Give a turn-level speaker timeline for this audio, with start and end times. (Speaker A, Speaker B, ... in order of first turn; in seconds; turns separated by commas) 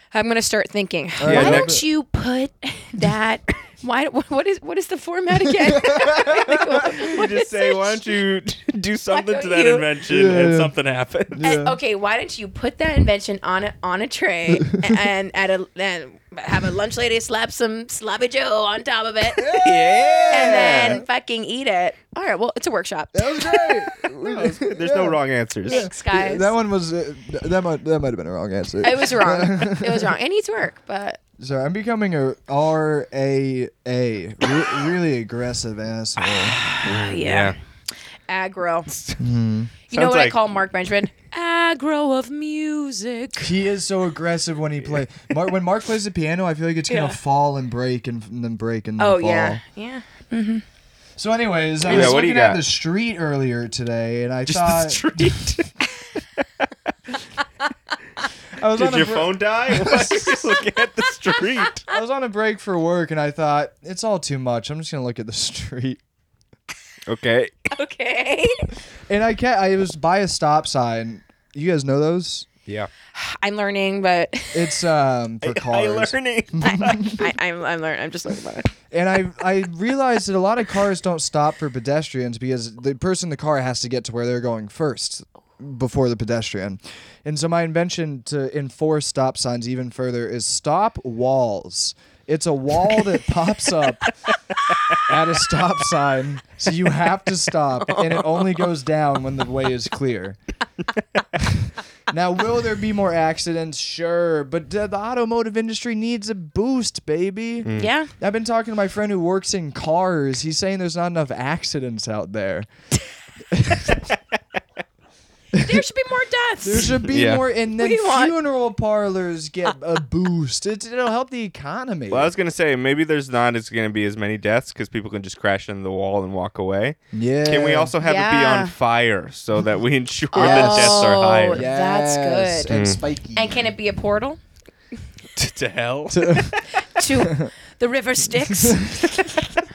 Speaker A: 0.1-8.0, Speaker B: 1.2-1.8, Speaker C: 1.2-1.8, Speaker B: 5.6-6.9, Speaker C: 7.0-11.4, Speaker A: 9.1-9.9, Speaker B: 10.1-10.7, Speaker B: 11.3-11.8, Speaker A: 11.4-19.5, Speaker B: 19.4-21.0, Speaker C: 19.6-21.0, Speaker A: 20.3-24.1, Speaker B: 23.1-30.1, Speaker C: 24.1-25.9, Speaker A: 25.7-26.5, Speaker A: 28.8-31.2, Speaker B: 31.4-36.6, Speaker A: 36.2-37.5, Speaker C: 36.8-37.5, Speaker A: 38.3-38.9, Speaker C: 38.9-39.2, Speaker B: 39.2-39.7, Speaker A: 39.9-43.5, Speaker C: 39.9-40.4, Speaker B: 43.4-49.6, Speaker A: 46.9-47.2, Speaker A: 49.0-50.6, Speaker B: 51.2-55.3, Speaker C: 51.8-52.6, Speaker C: 54.5-55.8, Speaker B: 58.6-60.4, Speaker C: 58.7-61.9, Speaker B: 61.9-66.0, Speaker C: 67.1-67.7, Speaker A: 67.7-68.7, Speaker B: 69.1-72.5, Speaker A: 73.1-74.8, Speaker B: 74.5-77.2, Speaker C: 75.4-77.2, Speaker A: 76.6-78.7, Speaker B: 78.9-94.1, Speaker B: 95.0-100.4, Speaker A: 97.9-98.2, Speaker B: 101.3-112.7, Speaker C: 107.7-107.9, Speaker A: 107.8-108.1, Speaker B: 113.5-114.0, Speaker B: 115.5-115.8, Speaker A: 115.6-117.0, Speaker B: 116.6-122.3, Speaker C: 117.1-117.4, Speaker A: 117.8-118.3, Speaker C: 122.1-131.6, Speaker B: 127.1-127.9, Speaker A: 128.0-128.7, Speaker A: 130.3-132.7, Speaker B: 130.4-133.7, Speaker C: 132.7-133.0, Speaker A: 133.4-134.4, Speaker C: 135.4-136.7, Speaker B: 136.1-136.6, Speaker A: 136.9-139.4, Speaker B: 137.2-137.5, Speaker B: 138.6-139.1